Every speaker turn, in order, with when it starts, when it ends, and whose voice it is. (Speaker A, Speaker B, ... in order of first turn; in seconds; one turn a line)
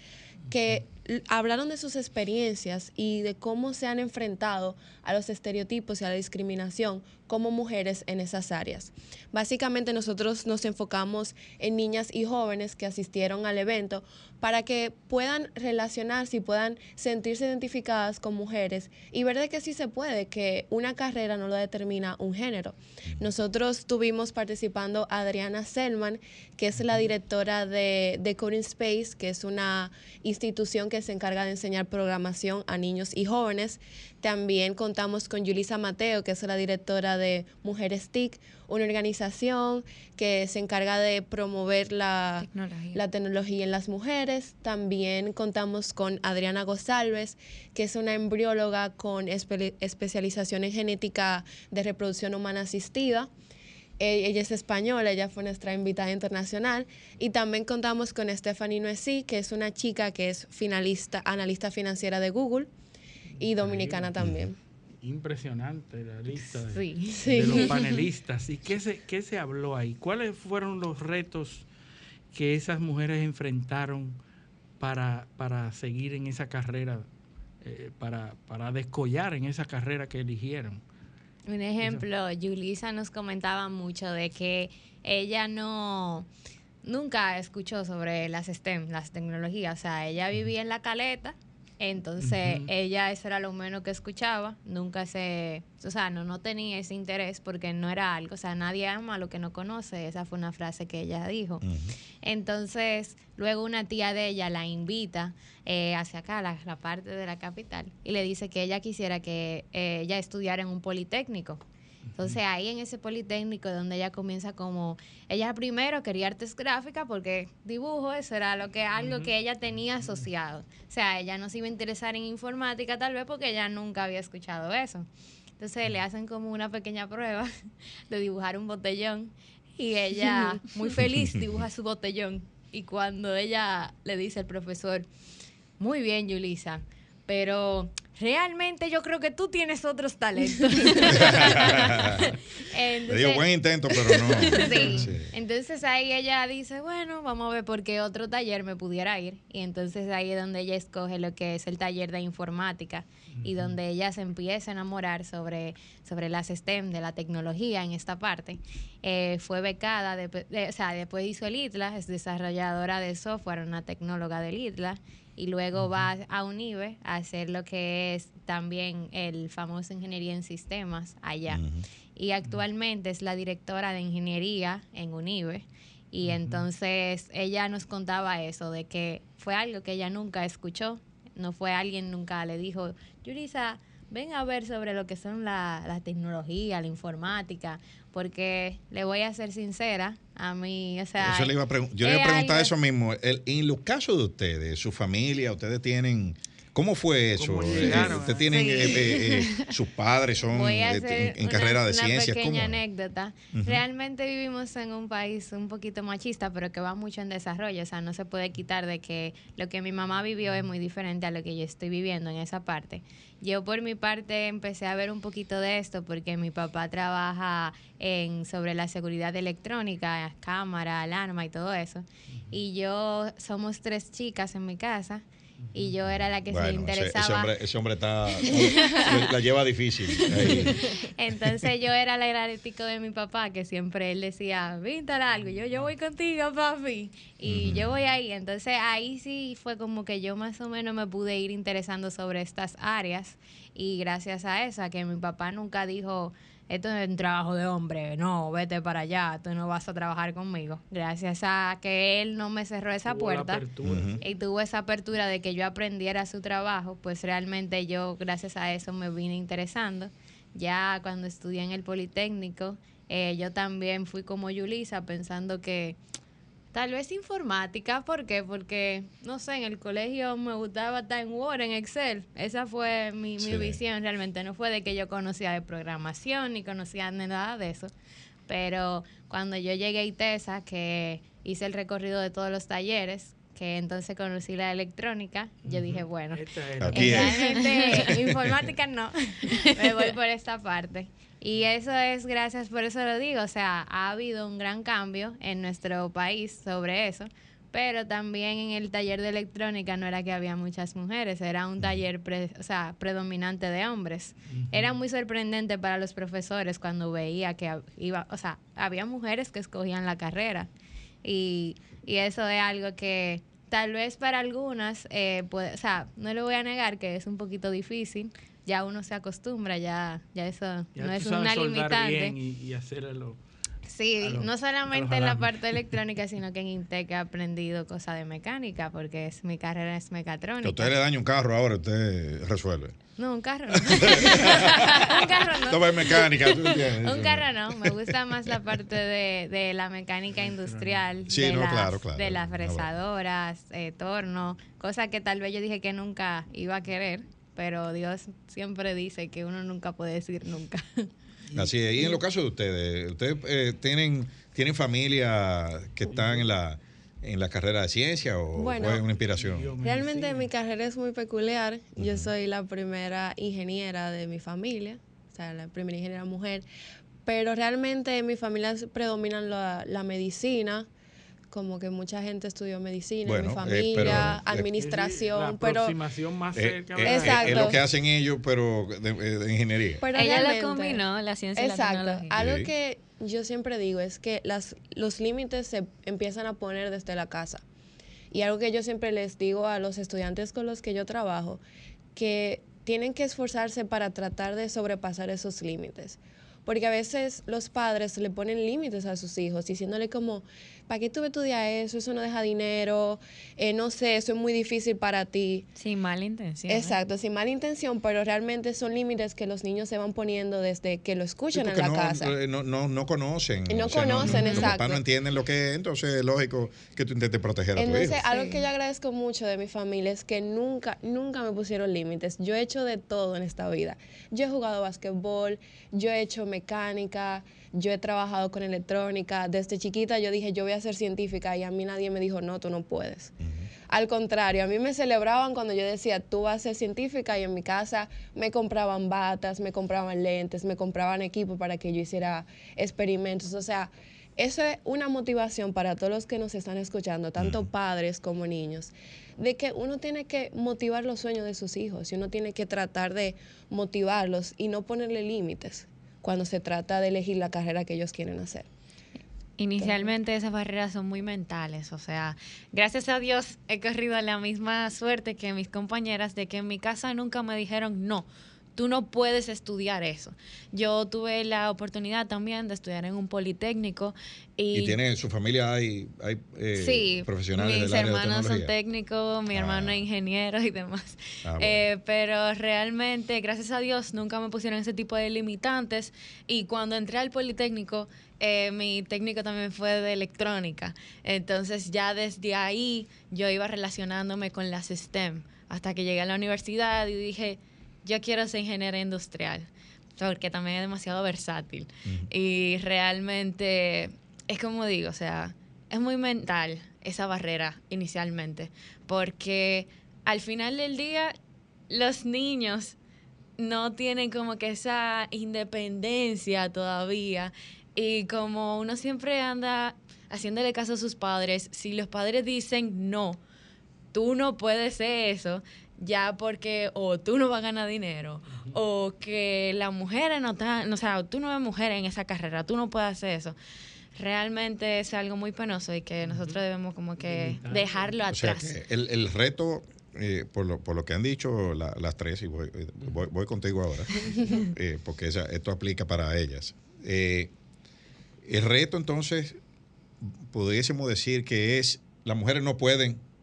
Speaker A: 0.5-53.3
Speaker B: 42.4-43.0
Speaker A: 54.0-62.7
Speaker C: 63.4-64.1
Speaker A: 63.4-64.5
Speaker D: 64.2-64.5
Speaker C: 65.0-71.7
Speaker E: 66.4-67.3
Speaker A: 67.2-67.7
Speaker C: 72.3-74.2
Speaker C: 74.8-77.1
Speaker C: 77.6-80.8
Speaker E: 81.5-86.3
Speaker E: 86.8-101.6
Speaker C: 92.2-92.7
Speaker D: 101.6-101.9
Speaker E: 102.2-111.6
Speaker C: 112.1-112.4
Speaker E: 112.2-125.1
Speaker C: 119.0-119.3
Speaker C: 120.0-120.2
Speaker E: 125.6-127.5
Speaker E: 128.1-135.1
Speaker E: 135.8-143.4
Speaker D: 141.1-142.3
Speaker D: 143.1-145.3
Speaker E: 144.5-171.6
Speaker C: 144.7-145.2
Speaker C: 153.3-153.8
Speaker C: 165.7-166.1
Speaker D: 171.5-171.8
Speaker E: 172.1-192.7
Speaker C: 176.2-176.7
Speaker D: 191.2-202.8
Speaker C: 197.3-198.5
Speaker B: 198.5-199.6
Speaker E: 200.5-227.5
Speaker D: 203.5-203.8
Speaker C: 222.3-222.6
Speaker C: 225.6-226.0
Speaker D: 226.5-230.8
Speaker E: 228.4-229.3
Speaker E: 230.1-253.7
Speaker C: 235.3-235.9
Speaker D: 237.4-238.0
Speaker C: 253.1-254.2
Speaker D: 253.8-254.2
Speaker E: 254.2-266.0
Speaker E: 266.7-277.9
Speaker D: 273.4-273.8
Speaker E: 278.5-310.7
Speaker C: 285.6-287.4
Speaker D: 286.8-287.3
Speaker B: 287.2-288.3
Speaker B: 289.5-290.1
Speaker C: 304.5-305.0
Speaker E: 311.2-322.4
Speaker C: 320.9-323.4
Speaker E: 323.9-330.9
Speaker C: 324.2-325.9
Speaker D: 330.6-332.9
Speaker E: 333.2-351.1
Speaker D: 333.7-337.9
Speaker C: 340.3-341.3
Speaker D: 341.3-342.9
Speaker C: 351.5-351.7
Speaker D: 351.5-359.8
Speaker C: 356.1-356.5
Speaker A: 358.5-359.0
Speaker C: 359.1-360.5
Speaker A: 359.8-366.6
Speaker D: 362.0-362.3
Speaker A: 367.2-370.9
Speaker A: 371.5-375.9
Speaker D: 373.2-374.7
Speaker C: 374.8-377.8
Speaker D: 376.6-380.0
Speaker A: 377.0-377.8
Speaker A: 380.0-387.6
Speaker B: 380.1-382.4
Speaker D: 382.3-382.7
Speaker A: 388.3-391.6
Speaker A: 392.1-405.7
Speaker B: 405.8-407.0
Speaker A: 406.7-412.3
Speaker D: 411.5-418.3
Speaker A: 413.7-415.0
Speaker B: 414.3-414.7
Speaker A: 417.8-433.3
Speaker D: 433.4-433.7
Speaker A: 433.9-458.7
Speaker D: 447.4-447.7
Speaker B: 459.6-475.0
Speaker A: 459.8-460.1
Speaker D: 474.7-478.7
Speaker B: 476.7-511.3
Speaker D: 479.5-480.0
Speaker D: 481.4-481.9
Speaker D: 502.0-502.3
Speaker B: 511.9-513.0
Speaker B: 513.6-523.4
Speaker B: 524.1-533.5
Speaker B: 534.1-538.8
Speaker C: 536.2-536.6
Speaker C: 537.2-538.2
Speaker D: 538.3-547.5
Speaker D: 548.4-549.6
Speaker D: 550.2-553.2